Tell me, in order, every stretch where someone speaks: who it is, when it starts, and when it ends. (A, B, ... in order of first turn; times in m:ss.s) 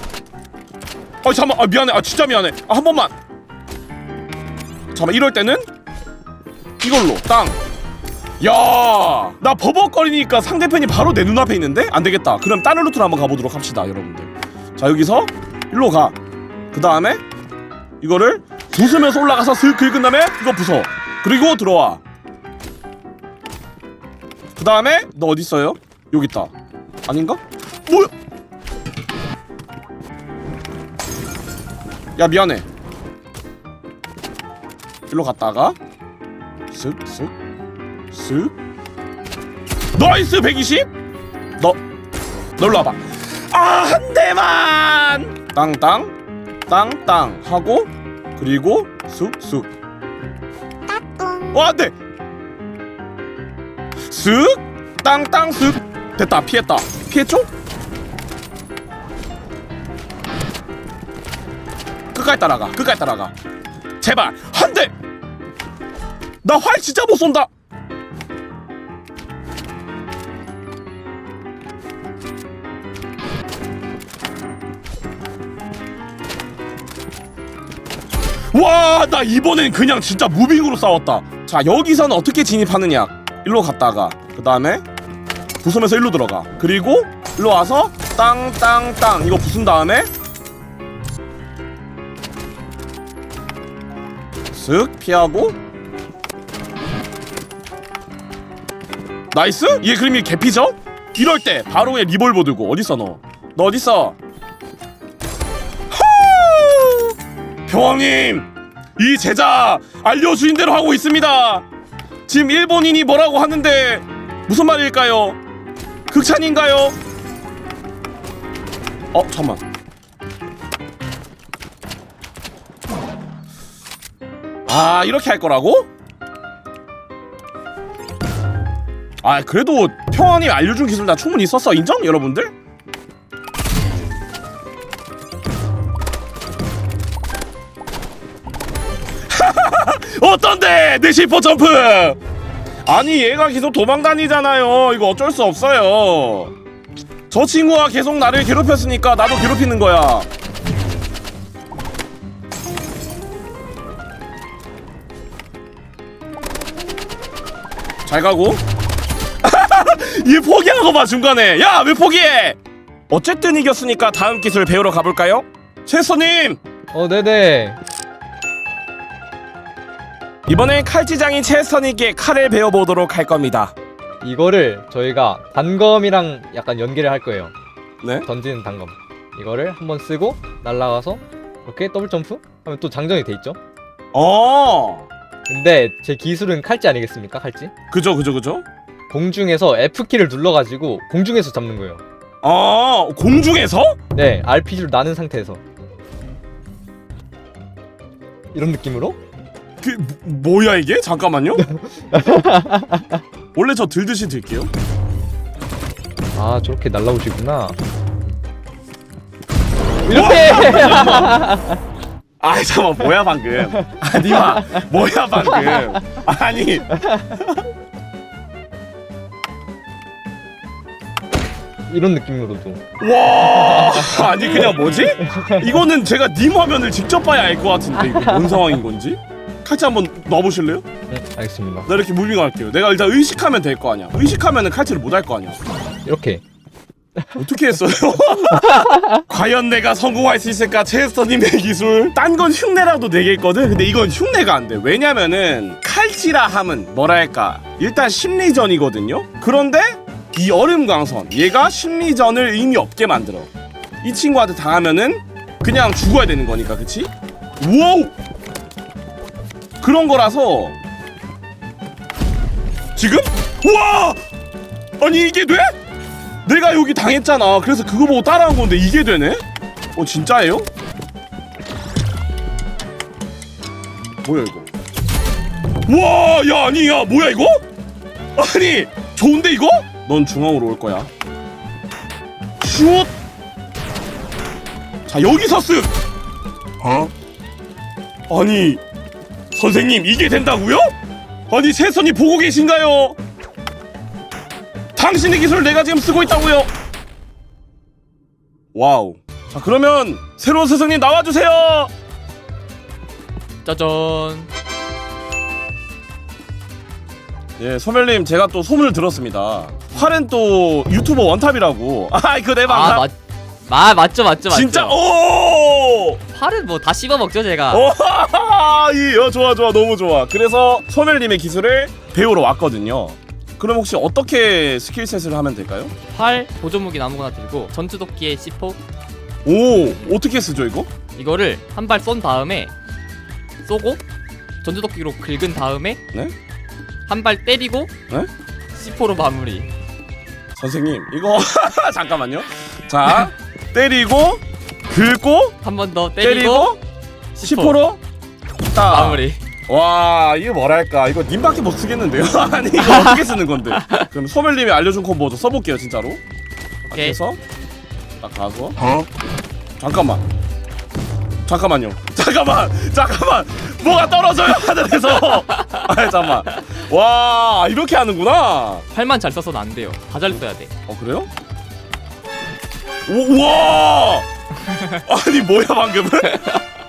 0:01.2-0:03.1 A
0:04.9-0:05.6 A
0:06.8-0:07.6 A
0:08.4-0:16.2 A
0:16.7-0:17.2 A
0:18.0-0:22.0 A
0:24.6-0:26.5 A
0:27.1-0:28.1 A
0:32.2-0:32.6 A
0:35.1-0:35.8 A
0:36.7-0:37.3 A
0:38.1-0:38.5 A
0:39.9-0:40.9 A
0:42.6-0:46.1 A
0:46.7-0:49.7 A
0:51.5-0:51.9 A
0:54.1-0:57.5 A
1:02.1-1:03.3 A
1:04.0-1:04.9 A
1:06.4-1:07.5 A
1:18.5-1:24.8 A
1:25.6-1:30.1 A
1:34.5-1:35.6 A
1:39.3-1:44.2 A
1:45.9-1:47.1 A
1:47.7-1:51.6 A
1:52.3-1:55.4 A
1:56.1-1:56.9 A
1:59.1-1:59.6 A
2:04.7-2:05.9 A
2:09.2-2:12.5 A
2:19.3-2:22.2 A
2:22.8-2:26.5 A
2:27.3-2:30.3 A
2:38.0-2:38.6 A
2:39.4-2:42.6 A
2:43.1-2:46.6 A
2:46.9-2:47.8 B
2:50.5-2:53.7 A
2:54.2-2:57.5 B
2:58.0-2:58.3 A
2:58.2-3:03.6 B
3:04.1-3:05.1 A
3:05.5-3:07.7 B
3:07.9-3:08.6 A
3:09.1-3:12.0 B
3:12.4-3:14.0 A
3:14.1-3:15.6 B
3:18.5-3:19.2 B
3:19.8-3:21.6 A
3:21.6-3:23.2 B
3:23.5-3:24.7 A
3:26.4-3:27.8 B
3:30.0-3:31.8 B
3:30.1-3:31.5 A
3:32.4-3:37.3 A
3:34.0-3:36.0 B
3:41.9-3:42.8 B
3:43.0-3:50.8 A
3:43.4-3:45.8 B
3:48.0-3:48.5 B
3:51.1-3:51.9 B
3:51.8-3:55.6 A
3:56.0-3:56.4 B
3:57.2-3:57.5 B
3:57.4-4:13.5 A
3:58.5-3:59.2 B
4:14.0-4:18.1 A
4:19.8-4:20.8 A
4:23.0-4:24.2 A
4:25.0-4:25.7 A
4:26.4-4:29.4 A
4:29.9-4:30.7 A
4:34.2-4:34.7 A
4:35.9-4:37.6 A
4:38.4-4:41.1 A
4:42.6-4:43.1 A
4:45.1-4:45.9 A
4:46.8-4:47.1 A
4:48.3-4:48.8 A
4:49.5-4:50.9 A
4:51.5-4:53.2 A
4:55.0-4:56.7 A
4:58.7-5:01.9 A
5:03.6-5:04.5 C
5:07.6-5:13.0 A
5:12.6-5:13.1 C
5:13.6-5:15.0 C
5:14.5-5:16.2 A
5:16.3-5:17.8 C
5:17.7-5:25.9 A
5:26.1-5:28.8 C
5:29.4-5:30.9 A
5:31.2-5:32.7 C
5:33.6-5:34.0 C
5:34.6-5:36.0 C
5:37.1-5:37.9 C
5:38.8-5:39.7 C
5:40.6-5:45.6 A
5:45.6-5:46.7 C
5:46.2-5:46.8 A
5:47.4-5:47.8 C
5:47.4-5:48.0 A
5:48.7-5:56.2 A
5:48.8-5:49.4 C
5:52.8-5:54.0 C
5:56.9-5:57.4 A
5:56.9-5:57.2 C
5:58.2-5:58.8 A
5:59.8-6:00.2 A
6:01.4-6:08.8 A
6:08.9-6:10.7 C
6:10.9-6:11.3 A
6:13.1-6:14.3 A
6:15.0-6:16.6 A